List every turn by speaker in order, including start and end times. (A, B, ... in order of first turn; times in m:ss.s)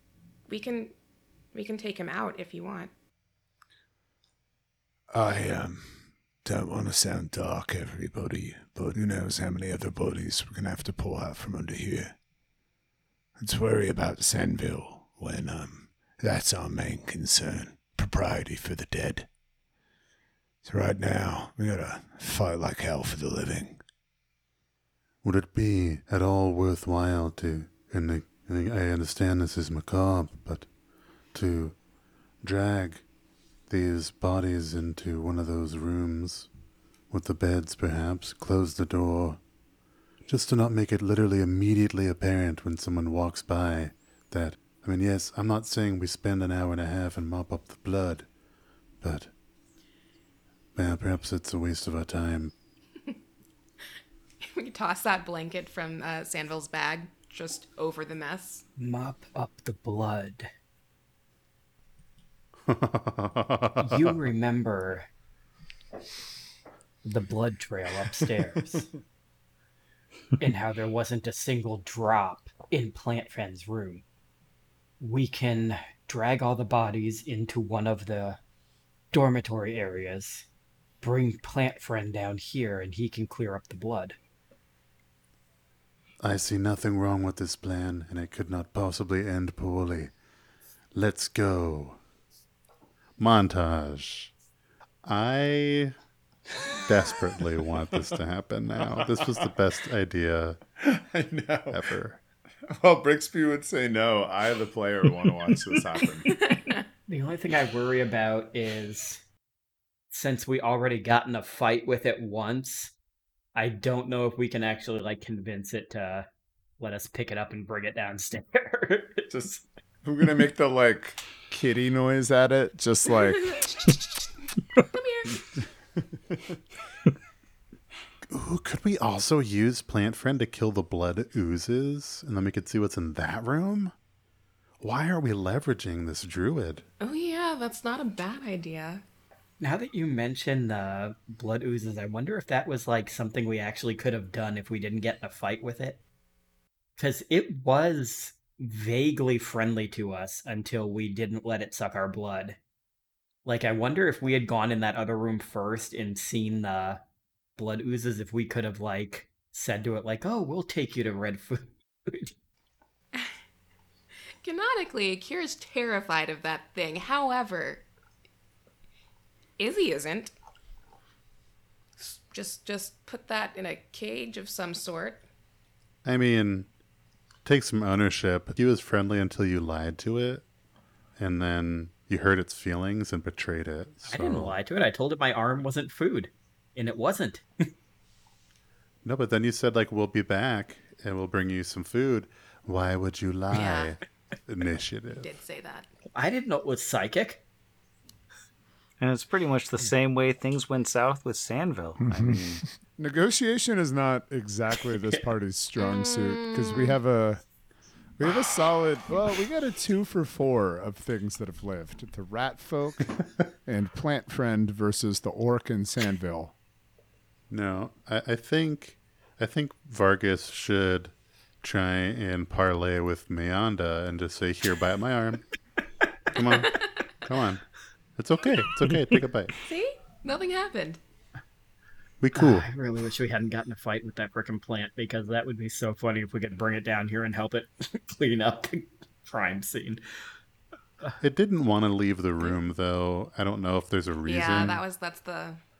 0:00.5-0:00.9 A
0:01.5-0:02.9 A
0:05.1-0:12.2 B
0:13.4-0:19.3 B
0:20.6-0:23.8 B
0:25.2-0:30.7 C
0:31.3-0:31.8 C
0:32.4-0:33.0 C
0:33.7-0:36.5 C
0:37.1-0:39.4 C
0:40.3-0:48.3 C
0:49.0-0:49.3 C
0:50.8-0:52.5 C
0:54.4-0:58.6 A
0:58.8-1:00.5 D
1:02.7-1:04.1 C
1:03.8-1:05.1 D
1:07.0-1:08.9 D
1:10.4-1:14.0 D
1:15.0-1:18.4 D
1:19.1-1:20.5 D
1:21.0-1:24.2 D
1:26.2-1:30.1 C
1:30.9-1:32.0 C
1:33.2-1:34.3 C
1:35.0-1:35.9 C
1:36.9-1:40.6 C
1:38.9-1:39.5 B
1:40.8-1:41.9 B
1:41.7-1:42.2 C
1:42.7-1:46.3 B
1:46.3-1:46.8 A
1:47.1-1:49.2 D
1:50.1-1:52.9 D
1:53.6-1:56.3 D
1:56.8-1:59.6 D
2:00.0-2:03.6 B
2:03.4-2:05.5 A
2:08.3-2:13.9 C
2:14.8-2:16.8 C
2:17.0-2:19.0 A
2:19.6-2:26.0 D
2:27.0-2:32.6 D
2:33.4-2:37.0 D
2:37.6-2:42.3 D
2:44.4-2:47.9 A
2:49.6-2:50.3 A
2:52.0-2:55.2 A
2:56.0-2:56.7 C
2:57.4-3:00.4 C
3:01.2-3:04.6 C
3:04.0-3:07.7 D
3:09.0-3:15.3 C
3:13.5-3:14.0 A
3:15.2-3:15.9 A
3:16.1-3:17.4 D
3:19.0-3:22.6 E
3:22.2-3:27.4 B
3:25.8-3:27.0 A
3:28.2-3:36.6 B
3:37.5-3:45.4 C
3:46.3-3:47.6 C
3:48.2-3:49.5 C
3:49.6-3:51.0 A
3:52.2-3:52.7 C
3:52.4-4:00.0 D
4:01.2-4:04.8 C
4:04.2-4:05.6 A